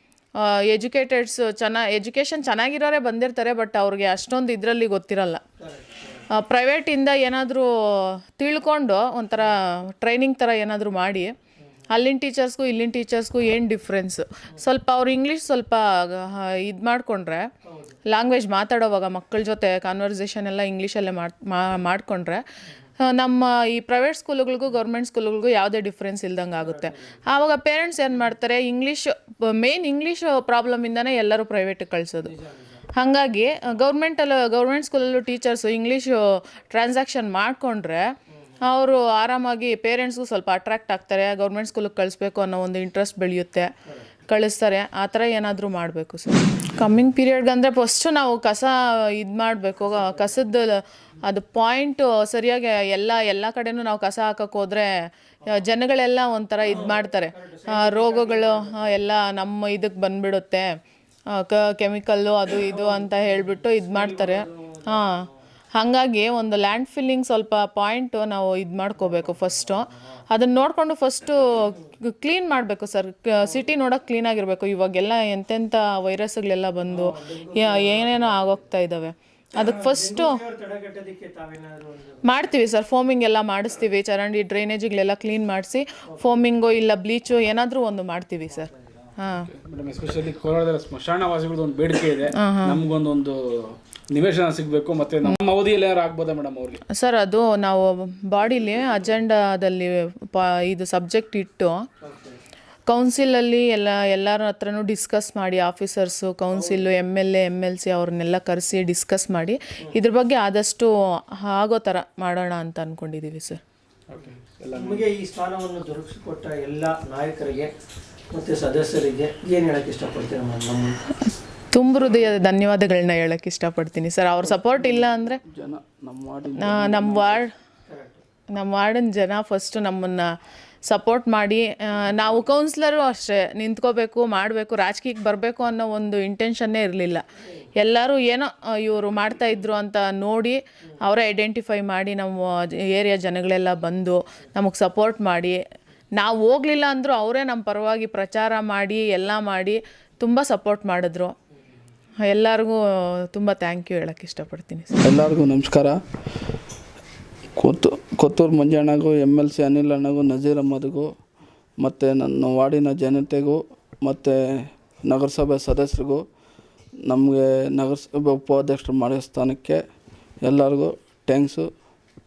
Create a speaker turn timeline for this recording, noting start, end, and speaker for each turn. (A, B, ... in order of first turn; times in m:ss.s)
0:00.4-0:05.4 A
0:05.6-0:06.3 B
0:06.3-0:11.3 A
0:11.9-0:17.5 A
0:17.6-0:18.0 B
0:18.0-0:22.4 A
0:23.0-0:32.3 A
0:26.6-0:27.2 B
0:32.2-0:32.9 B
0:32.9-0:43.7 A
0:38.3-0:38.6 B
0:44.3-0:54.9 A
0:49.9-0:50.4 B
0:55.4-0:55.7 B
0:55.5-1:00.7 A
0:56.6-0:58.9 B
1:01.3-1:20.4 A
1:02.6-1:05.4 B
1:09.0-1:10.2 B
1:16.9-1:18.6 B
1:19.6-1:22.3 B
1:22.2-1:29.5 A
1:26.1-1:26.4 B
1:28.5-1:29.2 B
1:29.3-1:36.8 C
1:32.3-1:32.8 A
1:36.9-1:41.8 A
1:42.0-1:42.4 B
1:42.9-1:53.6 A
1:46.5-1:46.8 B
1:54.1-1:57.7 B
1:54.2-1:55.1 C
1:58.3-2:01.0 B
2:01.7-2:05.4 A
2:05.0-2:07.4 D
2:06.6-2:07.5 A
2:07.9-2:08.2 B
2:08.5-2:10.3 A
2:10.8-2:17.2 A
2:17.8-2:25.6 A
2:26.2-2:31.3 A
2:32.2-2:35.0 A
2:35.0-2:36.0 D
2:37.6-2:41.1 D
2:41.8-2:46.2 D
2:47.0-2:49.8 D
2:50.4-2:51.7 D